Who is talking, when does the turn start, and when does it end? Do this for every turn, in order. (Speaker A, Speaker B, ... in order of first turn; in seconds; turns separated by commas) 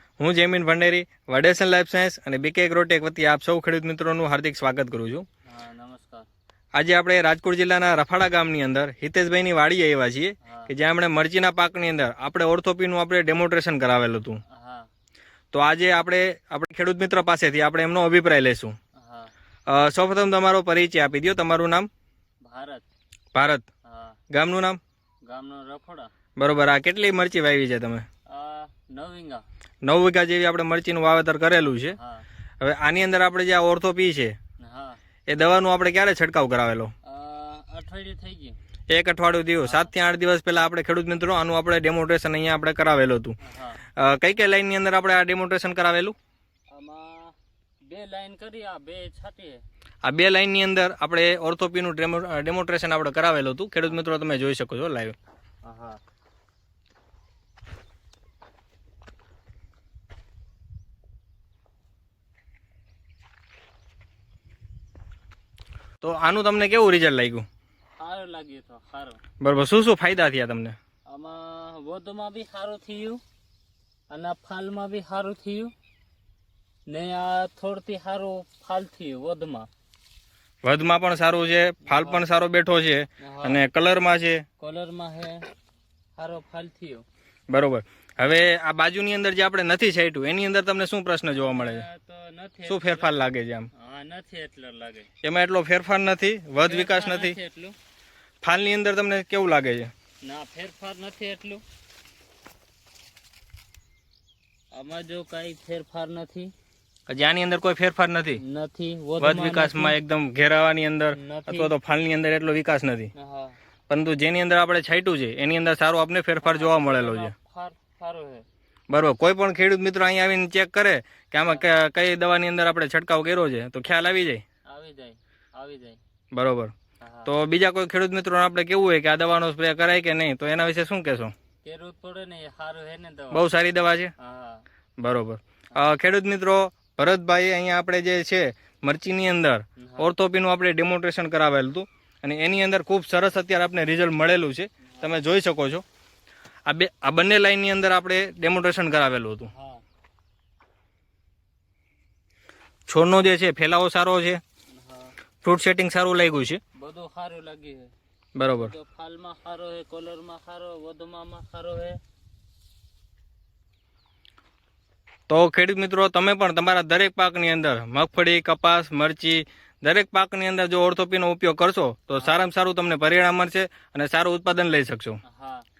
Speaker A: 0.2-5.2, Speaker B: 5.5-6.3, Speaker A: 6.7-14.4, Speaker B: 10.4-10.7, Speaker B: 14.5-14.9, Speaker A: 15.5-18.7, Speaker B: 18.9-19.3, Speaker A: 19.7-21.9, Speaker B: 22.4-22.9, Speaker A: 23.3-23.7, Speaker B: 23.8-24.2, Speaker A: 24.3-24.8, Speaker B: 25.2-26.1, Speaker A: 26.4-28.1, Speaker B: 28.3-29.4, Speaker A: 29.8-31.9, Speaker B: 31.9-32.2, Speaker A: 32.6-34.3, Speaker B: 34.6-35.0, Speaker A: 35.3-36.9, Speaker B: 37.0-38.5, Speaker A: 38.9-43.4, Speaker B: 39.6-39.9, Speaker B: 43.4-43.8, Speaker A: 44.0-46.1, Speaker B: 46.7-49.6, Speaker A: 50.0-55.1, Speaker B: 55.6-56.0, Speaker A: 66.0-67.5, Speaker B: 68.0-69.2, Speaker A: 69.4-70.8, Speaker B: 71.1-73.2, Speaker B: 74.1-75.7, Speaker B: 76.9-79.7, Speaker A: 80.6-84.4, Speaker B: 81.8-82.2, Speaker B: 83.2-83.6, Speaker B: 84.6-85.5, Speaker B: 86.2-87.0, Speaker A: 87.5-91.8, Speaker B: 91.3-93.2, Speaker A: 92.7-93.7, Speaker B: 93.7-95.1, Speaker A: 95.2-97.3, Speaker B: 96.6-97.7, Speaker A: 98.4-99.9, Speaker B: 100.2-101.6, Speaker B: 104.7-106.5, Speaker A: 107.1-108.4, Speaker B: 108.4-110.0, Speaker A: 109.2-113.1, Speaker B: 111.1-111.7, Speaker B: 113.2-113.6, Speaker A: 113.9-117.3, Speaker B: 116.4-118.5, Speaker A: 118.9-124.4, Speaker B: 124.7-126.0, Speaker A: 126.3-126.7, Speaker B: 127.0-127.3, Speaker A: 127.2-131.3, Speaker B: 131.6-133.5, Speaker A: 133.3-134.1, Speaker B: 134.2-134.6, Speaker A: 135.0-145.8, Speaker B: 139.8-140.1, Speaker B: 144.9-145.2, Speaker A: 146.7-149.5, Speaker B: 149.5-149.8, Speaker A: 152.9-154.4, Speaker B: 154.7-155.2, Speaker A: 155.4-156.6, Speaker B: 156.8-157.9, Speaker A: 158.3-158.7, Speaker B: 158.5-162.0, Speaker A: 165.3-175.2, Speaker B: 175.2-175.6